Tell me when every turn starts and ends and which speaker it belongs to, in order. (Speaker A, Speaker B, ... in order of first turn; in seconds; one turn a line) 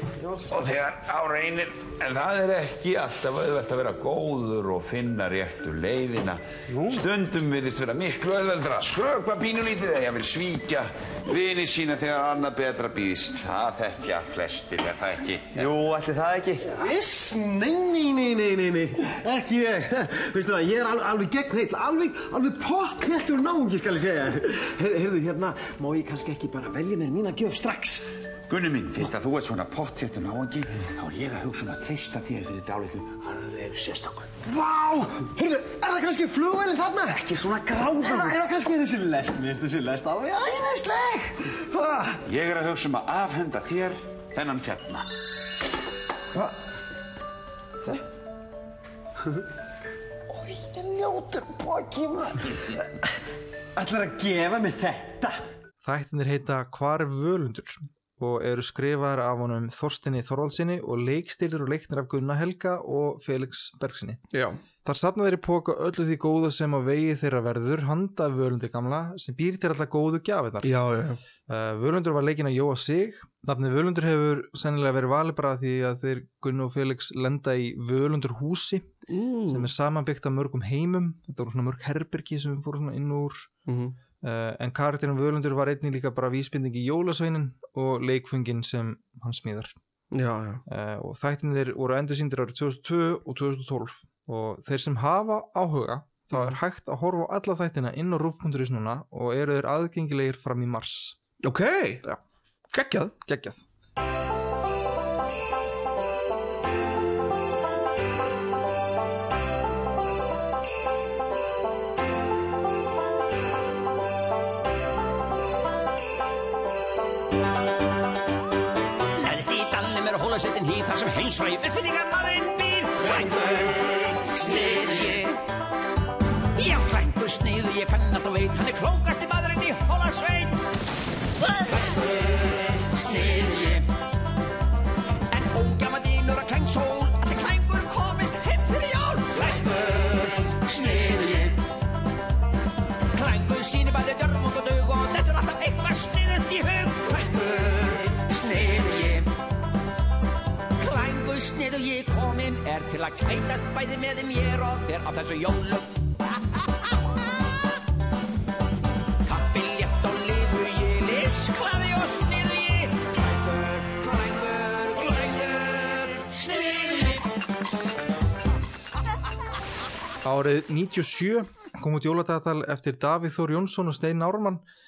Speaker A: 0.5-16.6
Speaker B: 16.6-28.0
Speaker A: 28.5-34.4
Speaker B: 34.6-42.2
Speaker A: 42.3-45.0
Speaker B: 50.3-52.6
Speaker B: 53.8-55.4
Speaker C: 55.8-64.2
Speaker D: 64.3-64.6
Speaker C: 64.8-70.7
Speaker D: 70.6-71.2
Speaker C: 71.5-78.9
Speaker D: 79.1-79.7
Speaker C: 79.5-83.5
Speaker D: 83.7-84.0
Speaker C: 84.2-89.7
Speaker D: 90.1-90.6
Speaker C: 90.7-101.2
Speaker D: 101.4-102.0
Speaker D: 102.7-103.1
Speaker C: 103.2-103.6
Speaker E: 119.2-125.4
Speaker E: 126.5-130.6
Speaker E: 131.4-133.8
Speaker E: 135.3-141.5
Speaker E: 143.1-149.3
Speaker E: 150.8-155.9
Speaker E: 159.2-167.2
Speaker C: 170.2-174.6